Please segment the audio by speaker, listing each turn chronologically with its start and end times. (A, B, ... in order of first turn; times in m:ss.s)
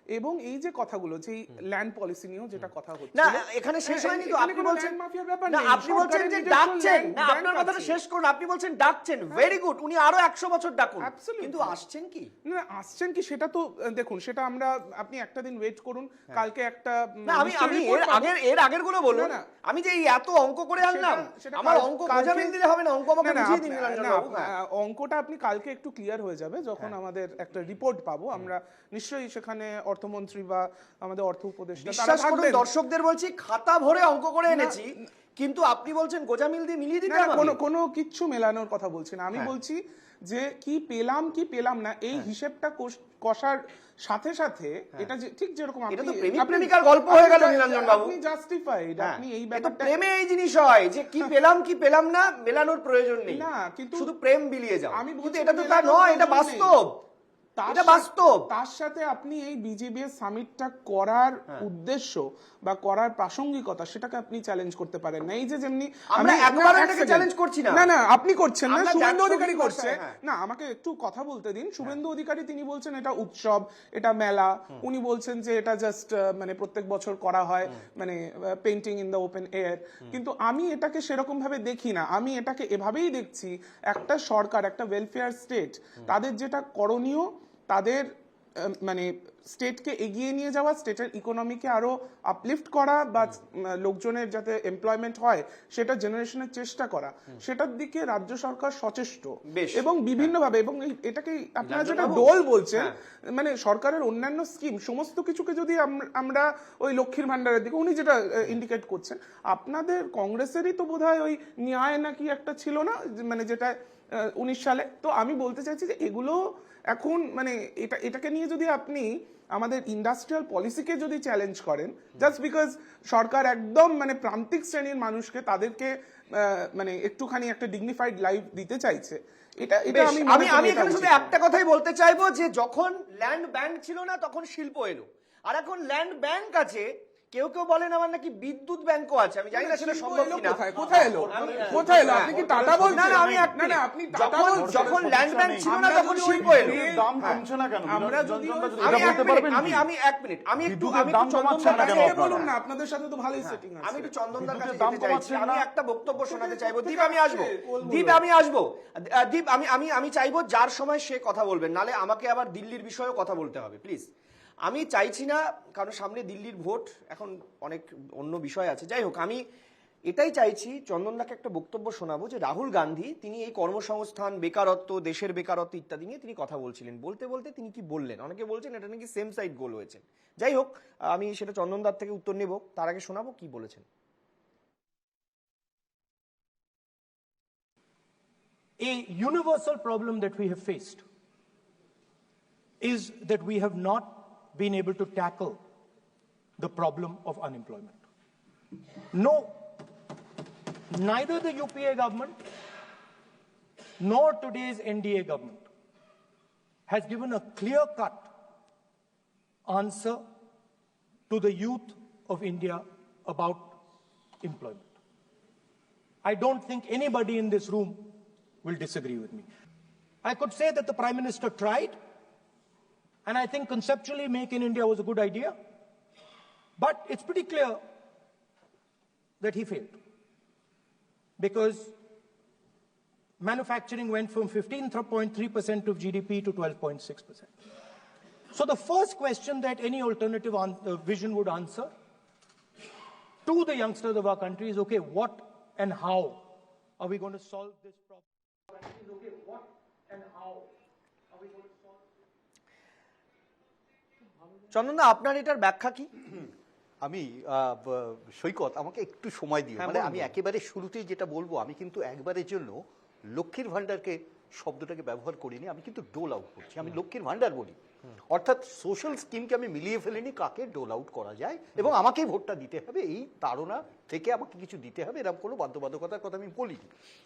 0:00.1-0:08.0 A
0:03.2-0:05.0 B
0:05.5-0:12.3 B
0:11.0-0:11.8 A
0:12.5-0:18.3 A
0:17.3-0:24.5 B
0:19.1-0:19.4 A
0:20.8-0:22.6 A
0:23.2-0:32.7 A
0:31.8-0:37.6 B
0:34.5-0:34.9 A
0:37.1-0:49.9 A
0:45.9-0:48.2 B
0:49.0-0:57.0 B
0:53.3-0:54.1 A
0:54.9-0:56.8 A
0:57.6-2:11.3 A
0:57.7-0:58.5 B
1:06.1-1:07.9 B
1:08.7-1:10.2 B
1:39.5-1:40.3 B
1:41.6-1:43.0 B
2:09.9-2:22.4 B
2:19.5-2:25.0 A
2:20.7-2:23.8 C
2:22.9-2:27.4 B
2:24.5-2:29.9 C
2:25.6-2:27.2 A
2:27.9-2:29.5 A
2:28.8-2:32.5 B
2:30.6-2:32.5 C
2:31.6-2:34.1 A
2:33.4-2:44.1 B
2:34.4-2:35.7 C
2:36.2-2:38.2 A
2:44.7-2:49.4 B
2:50.1-3:03.8 B
3:08.8-3:11.0 D
3:12.8-3:15.6 D
3:16.6-3:18.0 D
3:19.1-3:19.7 D
3:20.9-3:22.4 D
3:24.0-3:25.7 D
3:26.9-3:28.3 D
3:29.7-3:30.2 D
3:31.3-3:33.8 D
3:34.4-3:34.9 D
3:36.2-3:39.5 D
3:40.2-3:42.0 D
3:43.2-3:45.6 D
3:46.8-3:47.8 D
3:49.4-3:50.0 D
3:51.4-3:52.0 D
3:53.4-3:57.5 D
3:58.5-4:01.9 D
4:03.4-4:06.5 D
4:07.0-4:08.2 D
4:08.8-4:10.7 D
4:11.3-4:11.9 D
4:14.7-4:16.1 B
4:17.0-4:22.8 E
4:19.8-4:20.3 B
4:23.3-4:36.9 E